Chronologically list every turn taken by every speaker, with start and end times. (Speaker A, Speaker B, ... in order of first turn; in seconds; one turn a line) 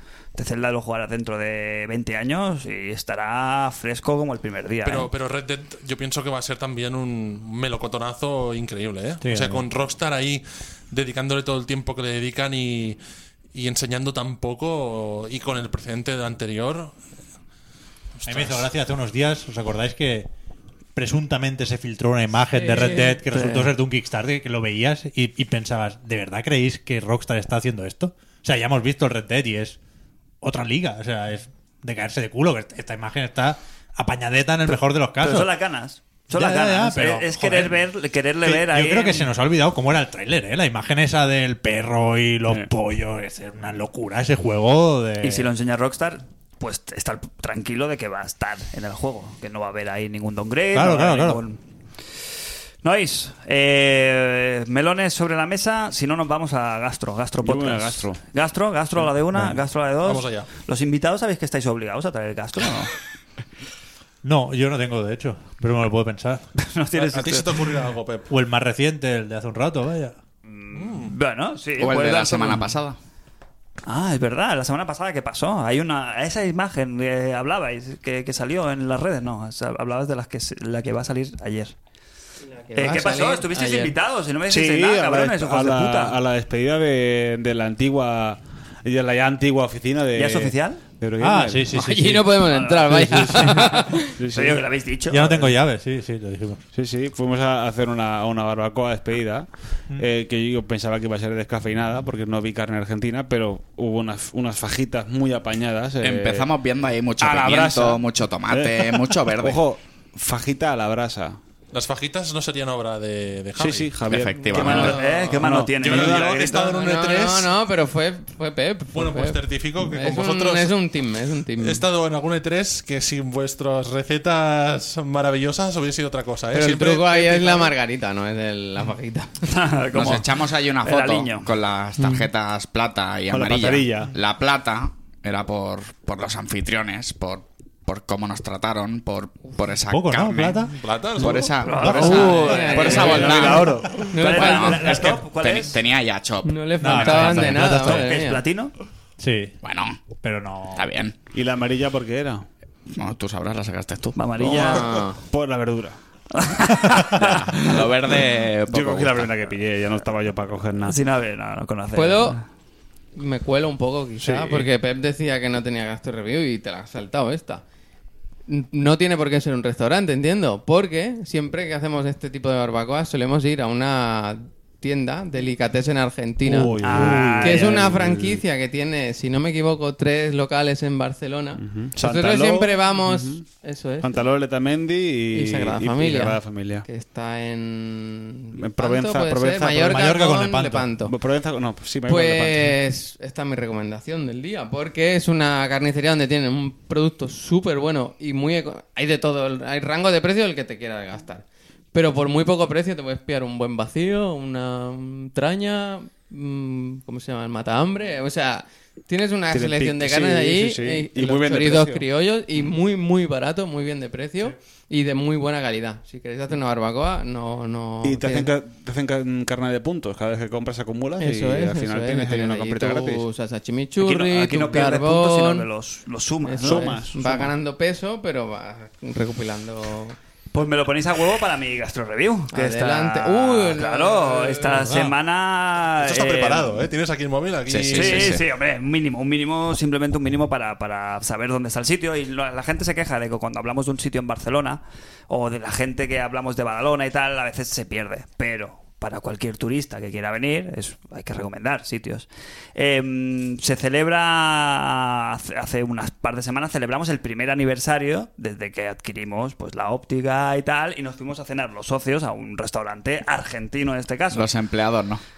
Speaker A: 0.3-5.1
Speaker B: 4.8-13.0
Speaker C: 9.2-9.7
Speaker B: 13.5-17.0
Speaker B: 18.2-18.7
Speaker C: 18.3-20.3
Speaker C: 20.9-29.8
Speaker D: 22.5-23.2
Speaker A: 23.3-23.7
Speaker C: 30.4-35.5
Speaker A: 34.7-39.3
Speaker C: 36.3-37.8
Speaker C: 38.4-45.5
Speaker A: 45.2-51.6
Speaker C: 50.7-51.4
Speaker A: 52.8-62.9
Speaker E: 57.4-58.2
Speaker B: 60.0-60.5
Speaker C: 64.2-66.5
Speaker A: 66.6-67.7
Speaker B: 66.9-68.3
Speaker C: 68.3-70.2
Speaker A: 70.5-72.7
Speaker B: 70.7-71.2
Speaker F: 71.8-73.0
Speaker A: 73.9-81.8
Speaker D: 82.5-83.9
Speaker A: 82.8-86.2
Speaker E: 84.5-91.8
Speaker A: 90.2-90.8
Speaker C: 91.2-93.5
Speaker D: 91.7-94.2
Speaker A: 92.5-93.7
Speaker E: 94.2-94.6
Speaker A: 94.2-95.5
Speaker C: 95.1-96.6
Speaker E: 96.7-106.5
Speaker F: 106.0-109.6
Speaker E: 107.2-111.4
Speaker B: 111.7-114.0
Speaker E: 113.6-116.3
Speaker F: 114.1-115.0
Speaker D: 114.4-115.6
Speaker A: 114.5-116.7
Speaker B: 115.8-117.5
Speaker D: 116.3-121.8
Speaker B: 118.9-120.8
Speaker B: 121.6-127.7
Speaker D: 126.5-129.5
Speaker A: 129.4-131.5
Speaker F: 129.9-140.7
Speaker E: 133.3-134.1
Speaker C: 139.9-140.8
Speaker B: 140.7-142.0
Speaker F: 141.2-147.6
Speaker A: 141.6-145.8
Speaker C: 141.8-142.3
Speaker D: 142.0-145.1
Speaker E: 142.7-145.1
Speaker D: 146.4-148.4
Speaker C: 146.8-148.1
Speaker A: 147.6-148.7
Speaker C: 149.2-149.6
Speaker F: 149.6-150.0
Speaker C: 150.2-150.9
Speaker F: 150.7-151.2
Speaker E: 151.3-152.5
Speaker F: 152.9-154.2
Speaker A: 154.2-155.0
Speaker E: 154.4-156.0
Speaker D: 154.4-155.2
Speaker A: 156.3-157.8
Speaker F: 157.2-159.3
Speaker E: 158.7-161.0
Speaker A: 160.9-162.4
Speaker D: 161.9-162.4
Speaker D: 163.2-167.6
Speaker E: 164.2-164.7
Speaker D: 168.5-184.2
Speaker E: 176.5-178.4
Speaker A: 176.8-177.8
Speaker E: 181.6-183.4
Speaker E: 184.0-186.9
Speaker D: 185.3-191.1
Speaker E: 188.6-190.0
Speaker C: 189.8-190.9
Speaker E: 191.0-192.8
Speaker D: 192.1-218.5
Speaker E: 209.5-212.1
Speaker E: 218.0-223.2
Speaker D: 221.2-225.7
Speaker A: 224.0-227.0
Speaker D: 226.4-230.2
Speaker E: 226.6-227.5
Speaker A: 230.5-236.9
Speaker D: 232.5-234.8
Speaker B: 236.0-238.4
Speaker F: 237.7-238.4
Speaker A: 237.9-264.5
Speaker F: 264.3-265.2